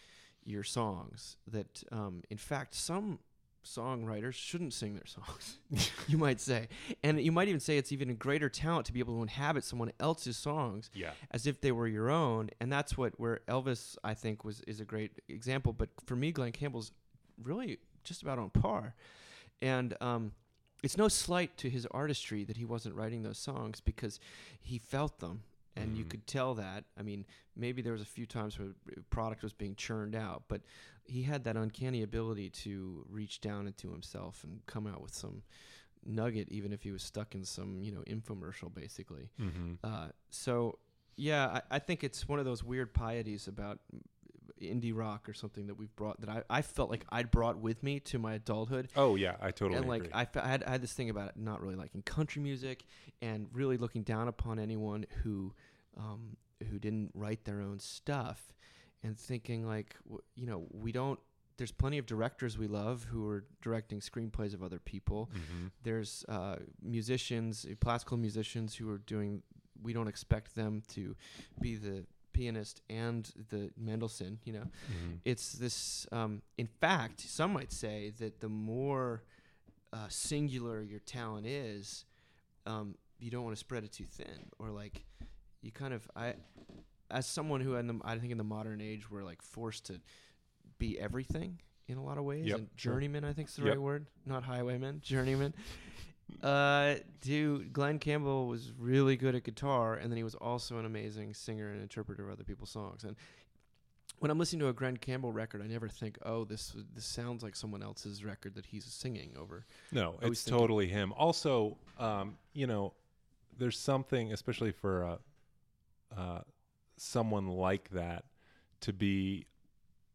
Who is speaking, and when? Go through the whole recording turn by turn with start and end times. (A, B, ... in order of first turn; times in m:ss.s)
0:00.4-0:49.0 A
0:10.9-0:11.2 B
0:25.8-0:26.1 B
0:39.4-0:39.8 B
0:48.9-0:50.2 B
0:49.7-1:19.3 A
1:05.3-1:05.7 B
1:14.9-1:15.2 B
1:19.9-1:22.1 A
1:22.6-1:25.1 A
1:25.6-1:26.4 A
1:27.1-1:30.0 A
1:30.8-1:43.4 A
1:32.4-1:33.0 B
1:44.2-1:50.7 A
1:49.9-1:53.0 B
1:53.5-1:55.2 B
1:56.1-1:56.4 B
1:57.0-1:59.5 B